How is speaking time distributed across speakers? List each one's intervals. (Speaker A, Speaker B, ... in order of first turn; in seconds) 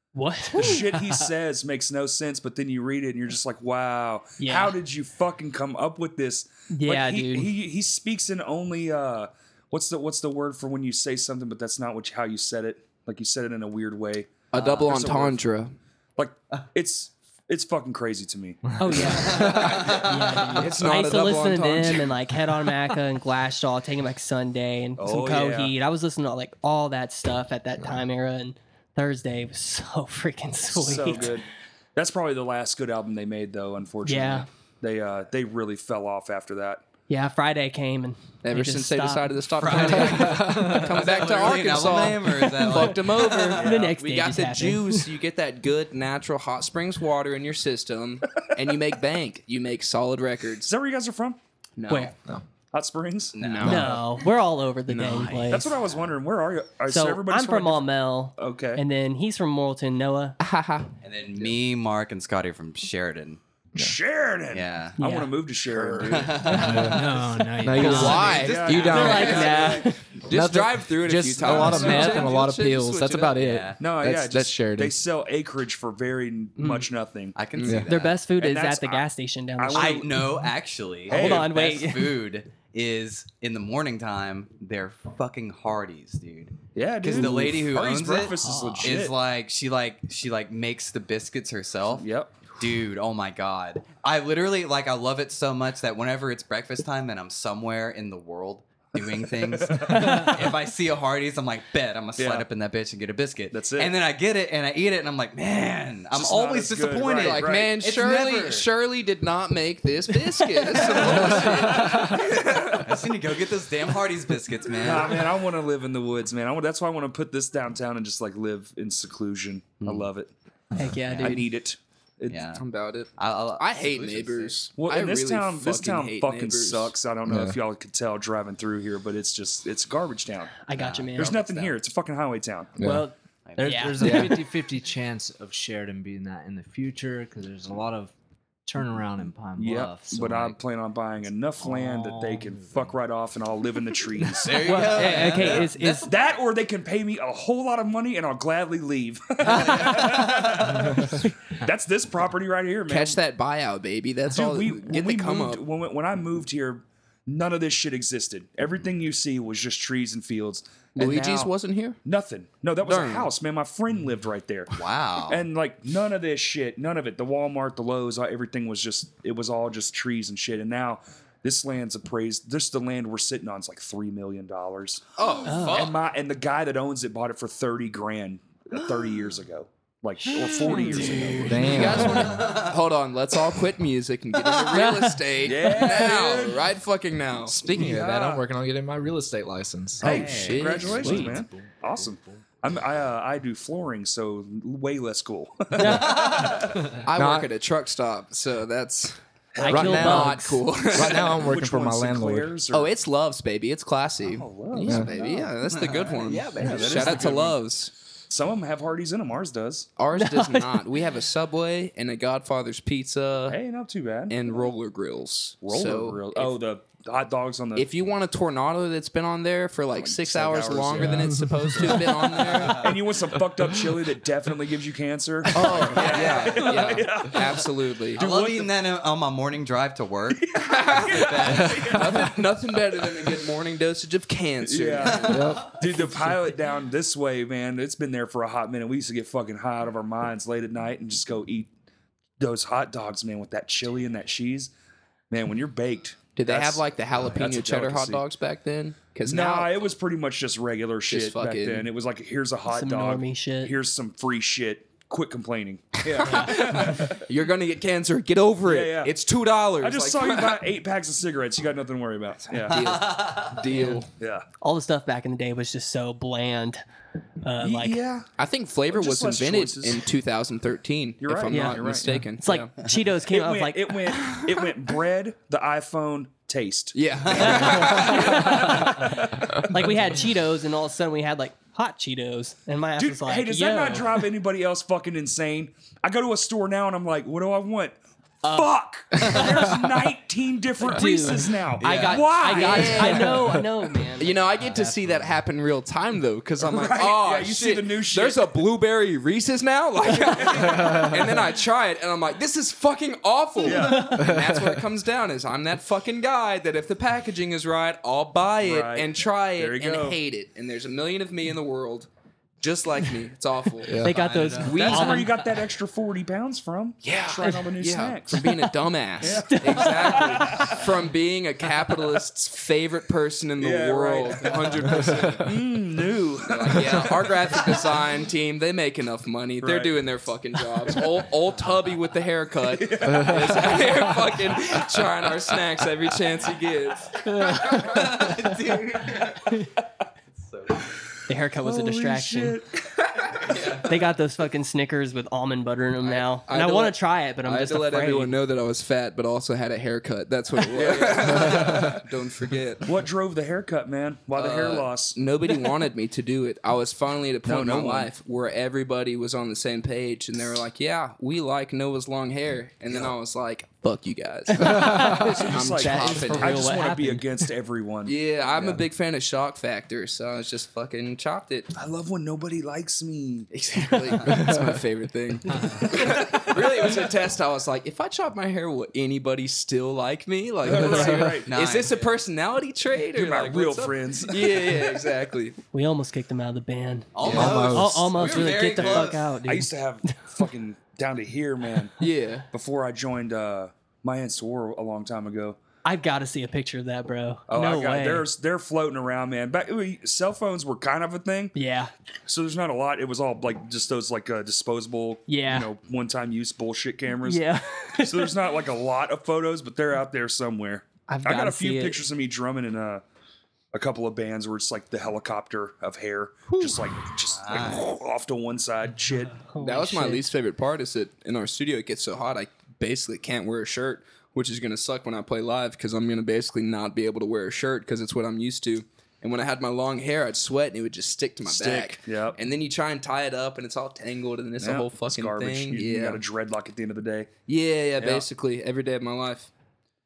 Speaker A: 0.1-1.2, 4.4-4.8, 6.7-7.5, 18.8-31.4, 34.0-34.5, 37.1-40.8, 42.3-45.1, 53.6-55.7, 56.9-60.4, 65.0-65.3, 68.8-70.0, 71.8-72.1, 76.6-76.9, 77.9-80.2, 81.1-82.2, 88.4-88.9, 100.0-100.3, 120.8-121.5, 130.7-131.4, 132.8-134.1, 144.6-146.1, 149.6-149.9, 161.0-161.5, 175.4-175.9, 180.3-182.3, 184.6-185.2, 195.7-196.5, 199.6-200.6, 210.1-210.8, 252.7-253.7, 256.2-256.9, 263.7-264.0, 264.6-266.8, 267.4-268.0, 271.5-271.8, 272.3-274.3, 277.3-284.1, 289.2-289.5, 290.8-295.0, 314.0-315.3, 319.3-320.7, 337.5-338.0, 341.3-342.6, 343.8-348.4, 364.5-367.3, 385.7-390.5, 395.8-398.3, 401.5-401.9, 405.3-405.7, 407.2-408.4, 411.1-412.0, 419.4-420.3
Speaker B: 0.5-15.4, 16.2-19.7, 25.0-25.7, 30.7-36.8, 50.6-51.4, 52.7-53.4, 55.5-58.8, 63.8-66.7, 67.8-69.9, 71.5-72.3, 73.8-77.4, 78.3-79.0, 79.6-80.5, 81.1-81.5, 86.7-89.2, 92.0-92.3, 99.4-100.5, 102.2-102.5, 103.5-103.9, 106.1-107.8, 111.0-112.2, 114.8-120.3, 121.2-122.5, 124.8-130.5, 131.2-132.8, 139.6-153.2, 154.3-161.5, 162.0-182.3, 185.4-186.7, 187.7-188.4, 190.0-197.0, 199.5-200.3, 200.9-202.9, 204.2-205.5, 206.3-207.6, 208.3-209.9, 213.5-214.6, 215.6-217.9, 219.9-228.7, 230.3-232.4, 234.6-241.7, 242.4-244.7, 245.3-248.2, 249.2-257.2, 258.6-259.1, 259.8-263.0, 264.2-264.4, 267.6-268.3, 268.9-270.1, 271.2-272.2, 273.2-279.9, 283.0-293.4, 296.6-298.6, 300.1-301.1, 303.6-304.2, 308.6-310.2, 314.7-318.5, 319.2-320.9, 323.6-327.9, 329.6-330.0, 332.7-334.1, 334.7-335.0, 341.6-343.6, 350.7-352.0, 352.8-355.2, 357.4-358.1, 362.9-363.1, 365.5-368.8, 371.7-373.5, 375.7-377.0, 380.6-381.5, 383.1-385.0, 388.2-392.0, 392.5-395.6, 397.5-401.5, 402.3-413.0, 413.7-419.5, 431.4-432.4, 434.6-437.3, 438.0-438.3
Speaker C: 14.5-15.7, 20.5-22.1, 38.4-50.7, 51.8-52.1, 53.4-54.0, 54.9-55.5, 60.4-60.9, 67.8-73.4, 77.6-77.8, 107.1-112.9, 122.5-126.9, 152.9-155.6, 160.9-162.0, 162.8-163.3, 175.2-176.0, 180.8-187.6, 190.0-191.4, 197.0-199.2, 199.7-201.5, 202.7-207.9, 210.0-213.6, 214.3-216.6, 217.7-223.0, 225.5-228.2, 230.6-235.5, 246.3-249.8, 251.1-251.9, 256.1-260.6, 262.6-264.1, 268.4-272.7, 276.9-279.1, 291.8-293.6, 294.2-312.1, 312.6-315.3, 317.0-325.5, 326.4-338.1, 346.0-352.9, 354.3-366.8, 368.1-371.7, 373.5-385.6, 387.2-387.5, 392.0-392.5, 419.6-436.2, 437.5-439.5
Speaker D: 14.5-14.9, 19.1-20.8, 39.6-43.8, 53.3-54.0, 61.0-63.4, 64.5-65.0, 66.1-67.3, 68.4-69.7, 73.3-73.8, 77.3-78.2, 79.7-108.7, 110.8-112.1, 112.7-115.2, 119.8-120.1, 121.1-121.4, 122.3-122.6, 123.2-124.6, 130.7-131.8, 133.4-134.2, 144.3-146.3, 149.4-151.0, 164.7-165.4, 182.2-182.7, 195.8-196.8, 205.7-207.0, 222.4-223.1, 225.6-226.7, 228.2-232.3, 235.0-235.7, 262.7-263.6, 291.8-292.1, 314.3-314.6, 337.6-339.6, 340.3-340.9, 343.4-343.9, 374.0-374.4, 381.4-382.2, 387.1-389.2, 417.3-417.9
Speaker E: 65.8-67.1, 67.6-69.5, 70.2-75.0, 127.2-127.6, 132.8-133.1, 134.0-134.4, 181.5-182.5, 187.5-190.2, 197.1-197.5, 199.7-200.4, 200.9-202.6, 204.8-205.1, 231.6-231.9, 235.3-235.8, 304.1-304.8, 313.9-314.1, 325.0-325.5, 374.5-374.8, 387.3-388.1
Speaker F: 66.5-68.4, 133.6-138.1, 138.7-140.6, 141.6-143.0, 144.2-144.5, 190.0-192.6